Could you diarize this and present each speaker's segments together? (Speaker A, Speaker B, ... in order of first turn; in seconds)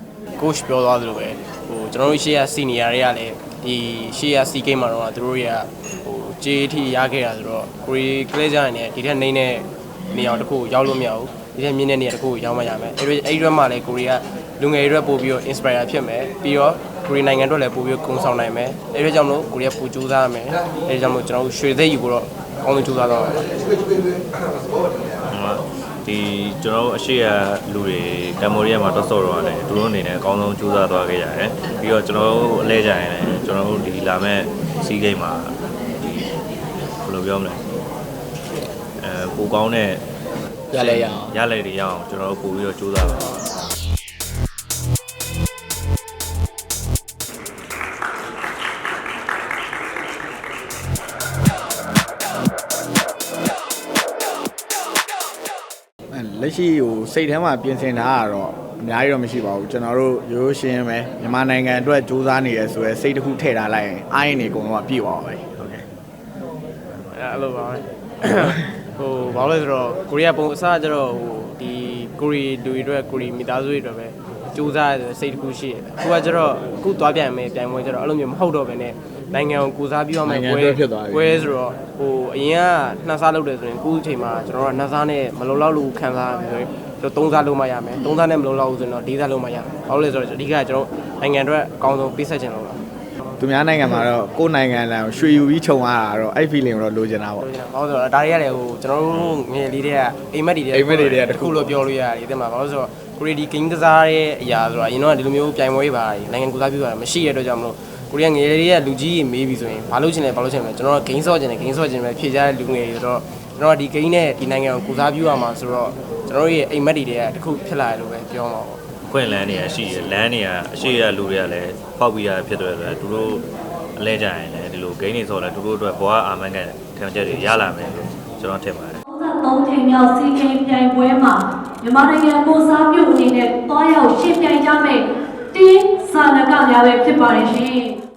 Speaker A: 0.4-23.5, 67.1-92.8, 97.4-118.8
Speaker B: 25.3-35.5, 37.0-37.6, 39.0-40.0, 40.7-43.3, 119.0-123.4, 124.0-129.0
Speaker C: 40.7-41.4, 56.1-65.8, 80.2-81.5, 93.4-97.5, 100.7-101.7
Speaker D: 129.1-138.0